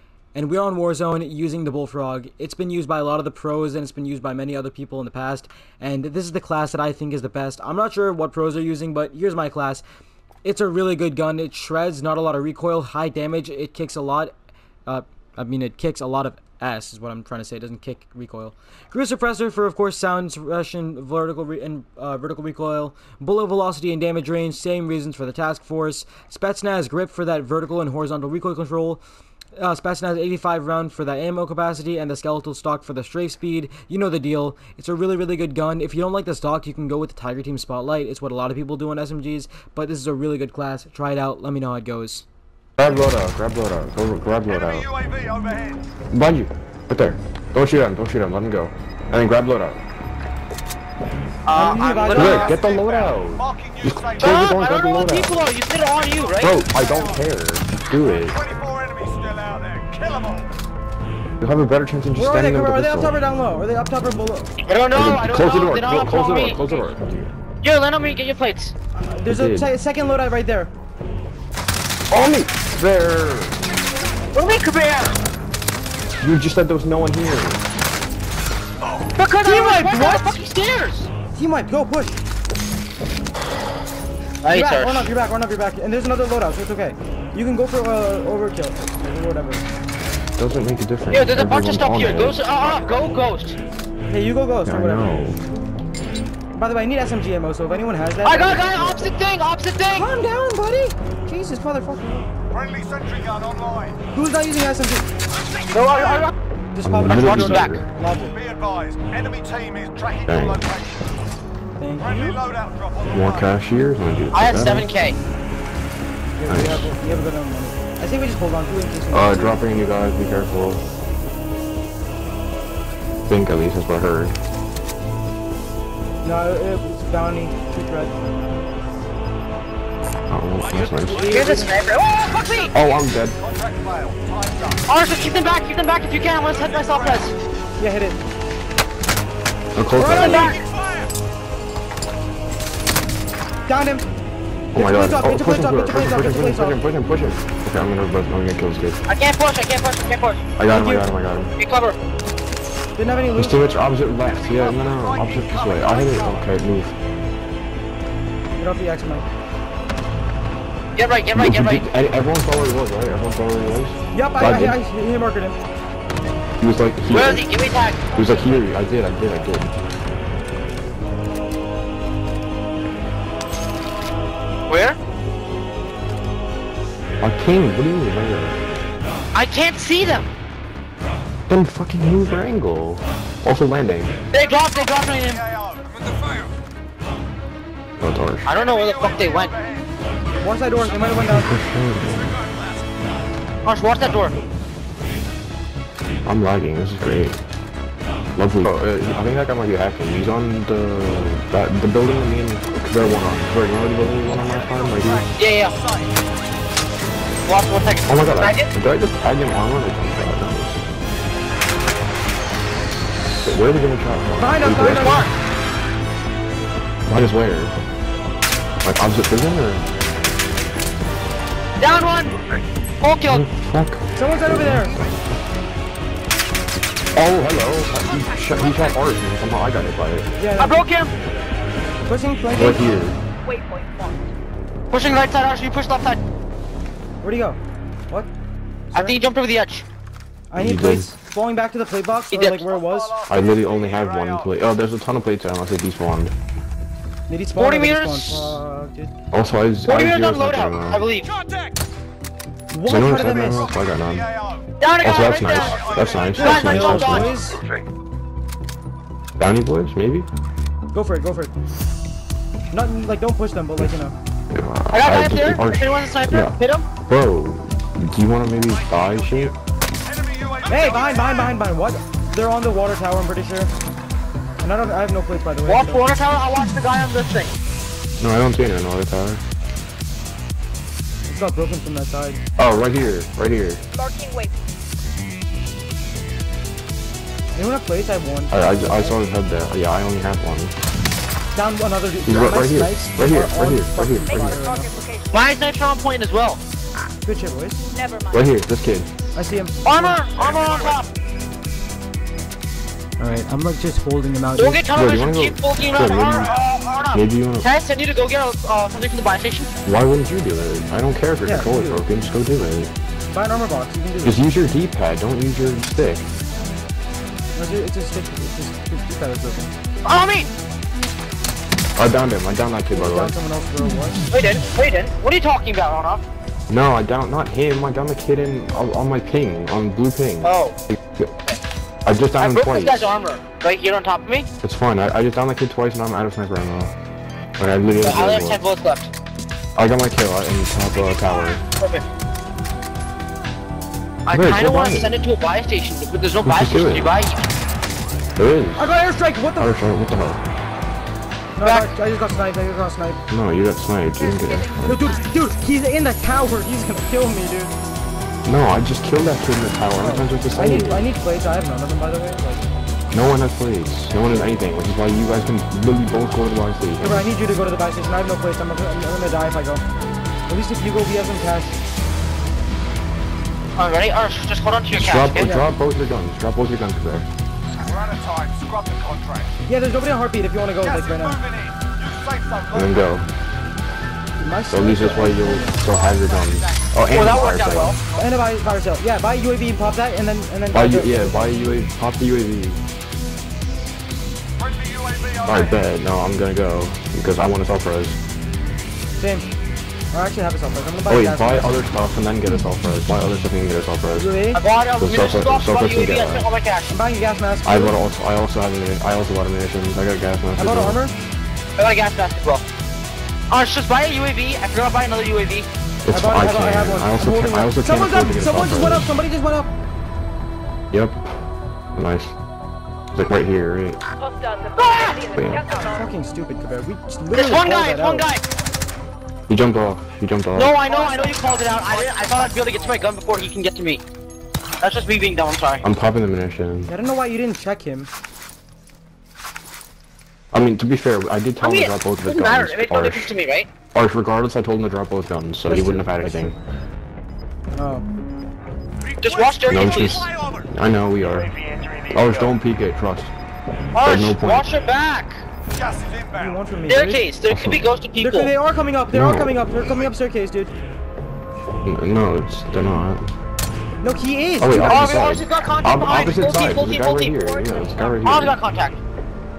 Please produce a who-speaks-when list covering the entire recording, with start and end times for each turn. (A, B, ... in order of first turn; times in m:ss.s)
0:00.3-0:09.8 A
0:10.4-0:14.3 A
0:14.8-0:29.0 A
0:29.6-0:42.2 A
0:42.8-0:44.9 B
0:45.0-0:45.8 C
0:46.1-0:49.8 B
0:51.4-0:52.6 D
0:51.5-0:52.6 A
0:52.1-0:55.4 B
0:52.5-0:54.3 C
0:54.2-0:56.6 D
0:56.4-0:58.4 B
0:58.4-1:00.4 C
1:01.4-1:03.2 B
1:02.2-1:04.5 A
1:04.6-1:06.8 D
1:04.9-1:07.3 B
1:07.6-1:08.7 D
1:08.9-1:10.7 A
1:09.3-1:09.7 B
1:12.1-1:13.6 B
1:14.3-1:15.2 D
1:16.2-1:17.6 B
1:19.2-1:21.1 D
1:19.4-1:20.4 A
1:21.3-1:22.2 A
1:24.4-1:25.1 D
1:24.5-1:29.6 A
1:30.4-1:32.6 B
1:31.1-1:33.6 D
1:34.1-1:35.1 A
1:34.6-1:35.4 B
1:36.5-1:39.1 A
1:38.2-1:40.1 D
1:39.9-1:42.3 A
1:42.5-1:43.9 C
1:44.1-1:45.1 A
1:45.7-1:46.3 D
1:46.7-1:48.4 A
1:46.8-1:47.9 B
1:47.1-1:47.8 D
1:48.6-1:50.8 C
1:50.2-1:50.7 B
1:51.8-1:52.4 A
1:52.5-1:53.2 C
1:53.1-1:54.9 B
1:54.3-1:55.2 D
1:56.4-1:59.6 A
1:56.4-1:56.9 B
1:59.1-2:00.8 B
2:03.3-2:04.4 B
2:06.2-2:08.1 A
2:10.3-2:11.5 B
2:11.1-2:11.7 A
2:11.1-2:12.7 D
2:12.7-2:13.4 B
2:13.5-2:14.6 C
2:14.9-2:17.4 D
2:17.8-2:18.2 A
2:19.8-2:20.5 B
2:20.0-2:20.6 A
2:20.1-2:20.6 D
2:23.6-2:24.0 A
2:24.7-2:29.0 B
2:24.7-2:26.8 A
2:29.1-2:30.4 D
2:30.6-2:31.5 B
2:30.7-2:31.1 A
2:31.6-2:32.0 D
2:33.0-2:33.6 A
2:33.3-2:36.9 B
2:38.5-2:39.2 A
2:41.0-2:41.9 D
2:41.3-2:44.8 B
2:44.1-2:45.6 A
2:46.6-2:47.5 B
2:47.1-2:48.4 D
2:48.1-2:49.7 B
2:54.7-2:55.0 D
2:57.2-2:58.6 B
2:59.3-3:00.3 D
3:01.5-3:04.1 B
3:04.3-3:05.4 D
3:08.0-3:08.5 B
3:08.4-3:09.6 D
3:10.4-3:11.5 A
3:11.2-3:12.3 B
3:13.6-3:14.4 D
3:16.2-3:17.4 B
3:18.4-3:25.3 B
3:25.3-3:25.7 D
3:27.5-3:28.7 D
3:28.1-3:30.8 B
3:33.4-3:35.3 B
3:34.4-3:35.3 A
3:35.0-3:35.3 D
3:37.1-3:37.7 B
3:38.8-3:39.8 B
3:41.8-3:42.4 D
3:43.0-3:43.4 D
3:43.3-3:45.2 B
3:44.1-3:45.0 A
3:47.2-3:50.3 B
3:47.9-3:49.1 E
3:50.4-3:50.8 A
3:50.6-3:51.1 D
3:52.1-3:52.9 A
3:52.5-3:53.2 B
3:53.4-3:54.3 E
3:54.9-3:56.2 D
3:57.2-3:58.3 A
3:58.9-3:59.9 D
4:00.5-4:03.2 A
4:00.6-4:01.1 B
4:02.3-4:02.7 D
4:03.3-4:06.3 B
4:07.3-4:09.1 A
4:07.5-4:08.6 D
4:09.3-4:11.1 B
4:09.8-4:11.3 D
4:12.7-4:13.7 A
4:12.8-4:14.3 B
4:14.8-4:17.4 D
4:15.0-4:17.4 B
4:15.5-4:16.3 C
4:16.3-4:17.6 A
4:19.4-4:20.3 B
4:20.9-4:21.5 A
4:22.7-4:24.1 A
4:24.5-4:29.6 B
4:24.9-4:26.9 D
4:30.3-4:31.0 C
4:30.7-4:33.7 A
4:34.6-4:36.0 A
4:35.6-4:37.5 D
4:38.2-4:39.4 B
4:41.2-4:42.4 A
4:42.6-4:43.8 B
4:43.9-4:44.5 E
4:47.5-4:49.2 A
4:48.5-4:50.7 B
4:51.5-4:54.9 A
4:52.2-4:54.6 B
4:54.3-4:55.5 E
4:55.3-4:56.6 D
4:57.2-4:57.8 A
4:57.9-4:58.5 E
4:58.3-4:59.1 B
4:59.3-5:00.2 A
4:59.8-5:01.1 D
5:00.5-5:01.0 C
5:03.2-5:04.8 A
5:04.6-5:09.7 D
5:04.9-5:06.6 B
5:07.1-5:07.7 B
5:09.8-5:12.9 B
5:11.4-5:12.0 A
5:13.3-5:14.4 A
5:14.2-5:16.3 B
5:17.6-5:19.7 A
5:20.0-5:20.5 D
5:22.0-5:23.3 B
5:22.9-5:24.2 A
5:24.3-5:26.2 D
5:26.7-5:31.3 B
5:30.4-5:30.8 D
5:32.0-5:33.2 B
5:32.4-5:34.5 D
5:34.6-5:36.9 B
5:37.6-5:38.6 B
5:38.0-5:39.1 D
5:39.8-5:41.6 B
5:41.8-5:42.0 D
5:44.2-5:47.5 D
5:44.3-5:45.2 B
5:46.4-5:47.1 B
5:48.4-5:48.9 B
5:48.8-5:49.7 A
5:49.6-5:50.4 B
5:51.6-5:53.2 A
5:51.6-5:51.9 D
5:53.3-5:55.1 B
5:54.2-5:55.1 E
5:54.8-5:57.7 A
5:58.4-6:01.1 B
6:00.0-6:02.7 A
6:03.1-6:07.2 B
6:07.0-6:09.8 A
6:10.5-6:11.8 A
6:13.8-6:15.5 D
6:14.9-6:17.3 B
6:15.4-6:15.6 A
6:17.9-6:19.5 C
6:19.6-6:21.4 A
6:21.1-6:22.7 C
6:22.7-6:23.3 B
6:24.4-6:25.8 A
6:24.7-6:28.0 B
6:25.9-6:28.0 D
6:28.1-6:31.8 A
6:30.7-6:32.8 B
6:34.7-6:35.4 C
6:35.4-6:38.2 B
6:39.2-6:39.5 A
6:40.1-6:41.7 A
6:41.1-6:44.3 B
6:44.1-6:44.6 A
6:44.5-6:46.9 D
6:45.0-6:46.5 B
6:46.9-6:48.0 A
6:47.6-6:51.0 B
6:50.6-6:51.2 A
6:51.8-6:52.6 D
6:53.5-6:55.7 D
6:56.0-6:59.2 B
6:56.1-6:59.7 A
7:00.9-7:01.4 B
7:01.9-7:02.3 B
7:03.1-7:04.0 B
7:04.2-7:06.1 E
7:04.8-7:05.2 D
7:05.3-7:05.7 B
7:05.7-7:08.3 A
7:07.3-7:08.4 D
7:09.5-7:10.8 B
7:10.5-7:14.0 D
7:10.9-7:11.4 E
7:11.5-7:12.7 C
7:14.8-7:15.8 D
7:15.8-7:16.9 B
7:16.9-7:18.1 A
7:20.5-7:23.3 B
7:21.6-7:23.7 D
7:23.9-7:26.6 B
7:25.7-7:26.5 A
7:27.7-7:28.0 A
7:29.2-7:30.3 D
7:29.5-7:30.4 C
7:29.6-7:31.5 B
7:31.2-7:32.5 C
7:32.1-7:33.3 B
7:33.9-7:35.4 D
7:34.0-7:34.7 B
7:35.8-7:36.3 C
7:36.3-7:37.2 A
7:36.9-7:38.5 D
7:37.5-7:37.9 B
7:38.2-7:40.7 A
7:39.1-7:39.6 B
7:41.8-7:43.3 B
7:44.0-7:45.2 A
7:44.6-7:48.6 B
7:44.8-7:47.6 D
7:47.7-7:48.1 E
7:48.2-7:49.0 D